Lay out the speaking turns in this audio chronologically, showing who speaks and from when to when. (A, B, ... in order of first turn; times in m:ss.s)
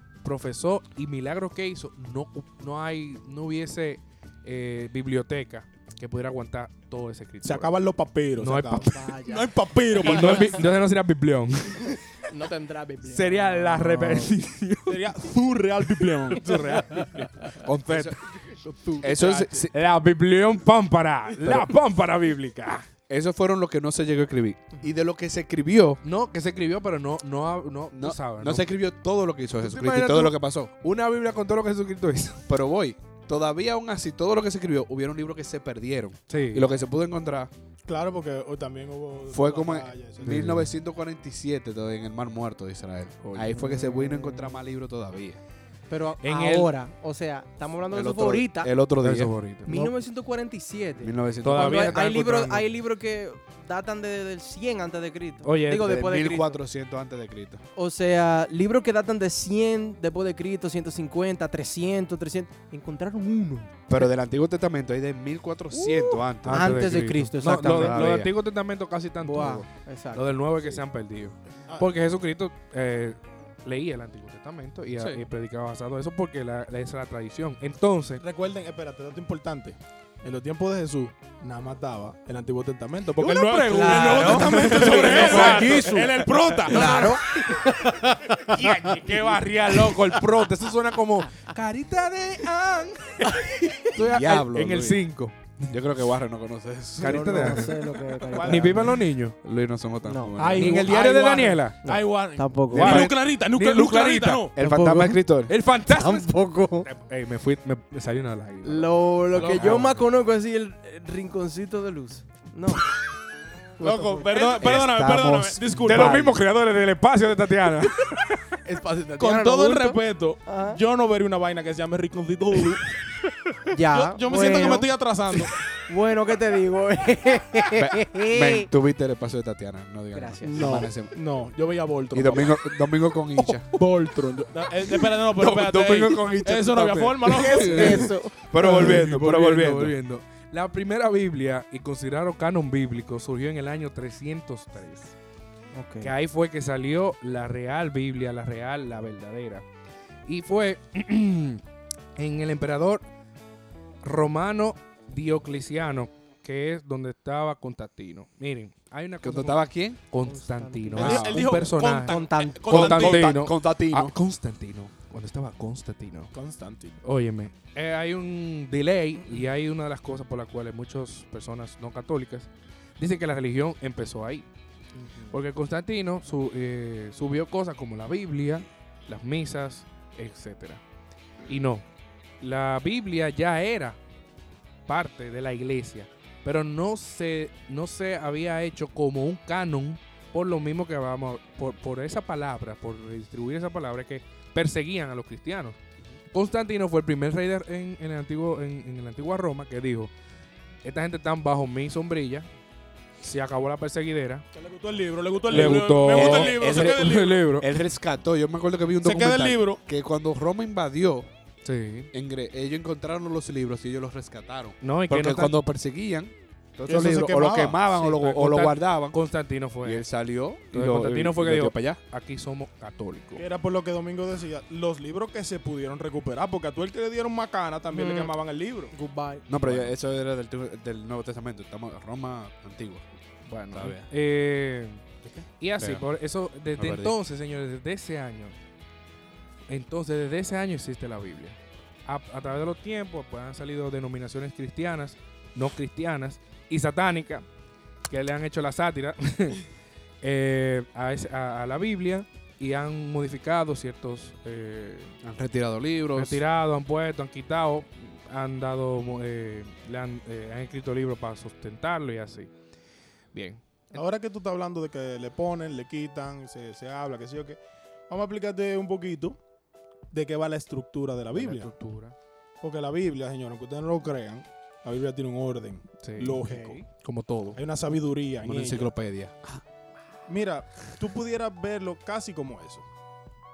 0:00.2-0:07.7 A
0:07.4-0:10.7 B
0:08.4-0:09.1 A
0:08.8-0:10.6 C
0:09.9-0:12.0 A
0:12.2-0:14.3 C
0:13.0-0:15.1 A
0:14.8-0:16.7 B
0:16.0-0:18.2 A
0:16.5-0:17.5 C
0:17.8-0:18.2 D
0:18.4-0:19.4 C
0:19.0-0:19.7 D
0:19.0-0:19.7 B
0:19.7-0:22.9 A
0:21.4-0:21.7 D
0:23.1-0:26.0 D
0:26.0-0:28.7 A
0:27.9-0:30.7 D
0:29.6-0:32.4 A
0:32.5-0:37.5 D
0:36.3-0:36.7 A
0:37.8-0:40.6 B
0:39.3-0:45.4 D
0:40.2-0:40.7 A
0:43.2-0:43.5 A
0:43.5-0:44.6 C
0:45.9-0:48.7 C
0:46.2-0:46.7 A
0:47.9-0:49.3 D
0:49.0-0:49.9 A
0:49.6-0:56.6 C
0:51.0-0:52.0 D
0:51.4-0:52.7 A
0:55.4-0:56.0 A
0:55.8-0:57.6 D
0:57.7-1:03.7 C
1:03.9-1:06.9 D
1:05.7-1:08.1 C
1:06.4-1:18.2 A
1:07.5-1:08.3 D
1:09.2-1:10.3 C
1:18.2-1:27.2 B
1:23.1-1:27.1 A
1:23.6-1:28.9 C
1:28.5-1:35.7 A
1:28.6-1:29.9 B
1:29.9-1:30.2 C
1:33.9-1:35.0 D
1:35.7-1:37.6 D
1:37.0-1:39.4 A
1:37.0-1:39.0 C
1:38.3-1:39.0 B
1:39.4-1:40.9 D
1:40.0-1:40.4 C
1:40.4-1:44.5 B
1:40.4-1:41.8 A
1:41.8-1:43.0 C
1:42.7-1:43.1 D
1:42.7-1:44.5 A
1:44.5-1:45.5 D
1:44.6-1:45.2 C
1:45.5-1:46.3 A
1:45.9-1:46.9 C
1:46.8-1:50.0 A
1:48.6-1:52.9 C
1:49.4-1:49.8 B
1:49.4-1:49.8 D
1:53.8-1:54.8 C
1:53.8-1:56.2 B
1:54.5-1:56.4 D
1:55.8-1:58.4 A
1:58.6-2:00.8 C
1:59.2-2:03.0 B
2:03.7-2:04.9 C
2:03.9-2:05.6 B
2:05.8-2:08.7 C
2:07.7-2:11.1 D
2:10.1-2:10.8 C
2:10.4-2:12.6 B
2:12.1-2:13.8 D
2:13.7-2:18.1 B
2:15.1-2:20.0 D
2:17.3-2:18.8 C
2:17.3-2:25.1 A
2:25.7-2:26.1 C
2:26.0-2:29.6 A
2:30.2-2:31.6 A
2:32.2-2:33.0 A
2:34.0-2:46.3 A
2:39.2-2:40.0 D
2:40.2-2:43.0 C
2:41.0-2:43.3 B
2:41.0-2:41.4 D
2:42.7-2:44.1 D
2:46.3-2:47.0 B
2:47.0-2:52.5 A
2:53.0-2:54.4 A
2:55.3-3:00.8 A
3:01.5-3:01.8 A
3:02.4-3:04.0 A
3:04.9-3:15.8 A
3:16.3-3:20.1 A
3:20.8-3:22.5 A
3:23.2-3:24.4 A
3:24.5-3:27.4 B
3:25.5-3:27.6 A
3:25.5-3:31.3 D
3:29.0-3:29.8 B
3:31.6-3:32.1 A
3:32.1-3:39.2 D
3:34.8-3:35.6 A
3:36.9-3:37.8 B
3:37.9-3:40.0 A
3:39.8-3:42.0 D
3:40.7-3:43.4 A
3:43.4-3:48.9 B
3:48.0-3:48.3 C
3:48.9-3:49.5 C
3:49.5-3:53.0 D
3:49.6-3:49.9 A
3:53.5-3:58.5 A
3:53.7-3:54.1 D
3:55.3-3:56.0 D
3:56.8-3:57.2 D
3:59.7-4:07.4 A
4:08.1-4:09.6 A
4:10.2-4:15.2 A
4:15.2-4:16.4 D
4:16.1-4:22.5 A
4:23.3-4:24.0 A
4:23.9-4:29.4 B
4:30.1-4:31.7 B
4:31.3-4:32.1 A
4:32.6-4:36.8 B
4:36.0-4:37.6 A
4:37.5-4:38.9 B
4:38.4-4:39.6 D
4:40.3-4:42.8 B